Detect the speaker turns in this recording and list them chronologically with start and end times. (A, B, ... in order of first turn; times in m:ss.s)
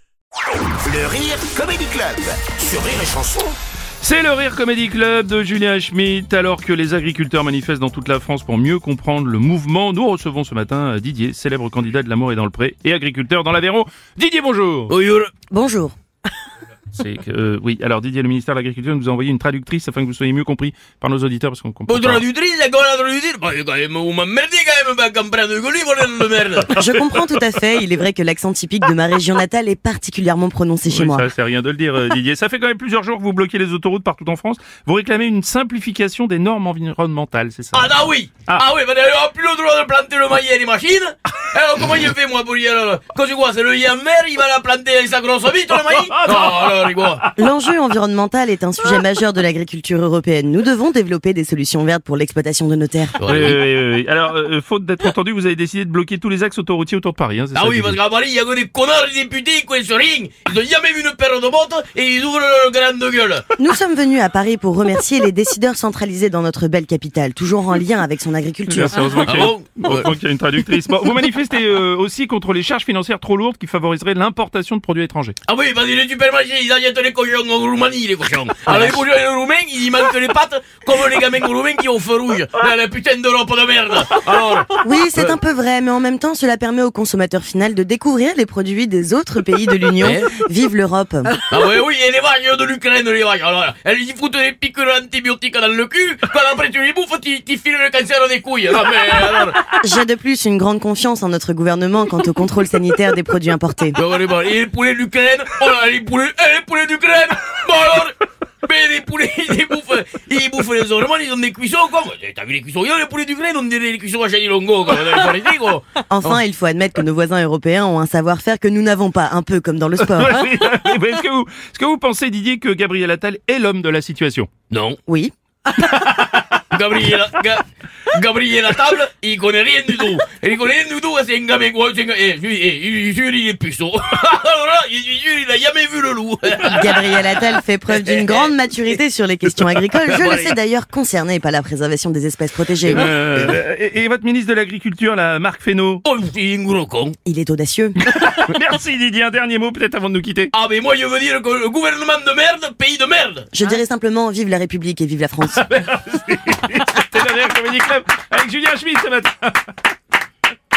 0:00.8-0:03.6 A
0:04.0-0:14.9 B
0:14.9-0:15.3 C
0:15.5-0:15.9 D
0:16.9-0:22.2 B
0:21.9-0:26.7 C
0:26.8-0:31.3 D
0:30.9-0:37.9 B
0:37.7-0:47.2 C
0:45.8-0:47.4 B
0:47.4-0:53.2 D
0:53.2-0:53.6 C
0:53.2-0:58.0 B
0:57.5-1:03.4 C
1:03.6-1:09.1 D
1:08.7-1:15.4 B
1:09.1-1:10.1 C
1:15.5-1:25.3 C
1:18.7-1:19.0 D
1:24.8-1:31.4 D
1:30.0-1:30.3 C
1:31.4-1:39.6 C
1:39.8-1:44.0 D
1:43.9-1:56.4 C
1:56.1-2:00.4 D
2:00.0-2:04.5 B
2:04.7-2:05.0 C
2:05.1-2:05.3 D
2:05.8-2:06.4 B
2:06.7-2:17.4 C
2:16.7-2:23.6 D
2:17.9-2:18.5 C
2:19.6-2:20.6 C
2:22.9-2:26.0 B
2:26.0-2:27.2 C
2:27.2-2:28.0 D
2:28.0-2:30.5 B
2:30.5-2:33.5 C
2:33.5-2:35.6 D
2:35.7-2:36.4 C
2:36.1-2:39.6 B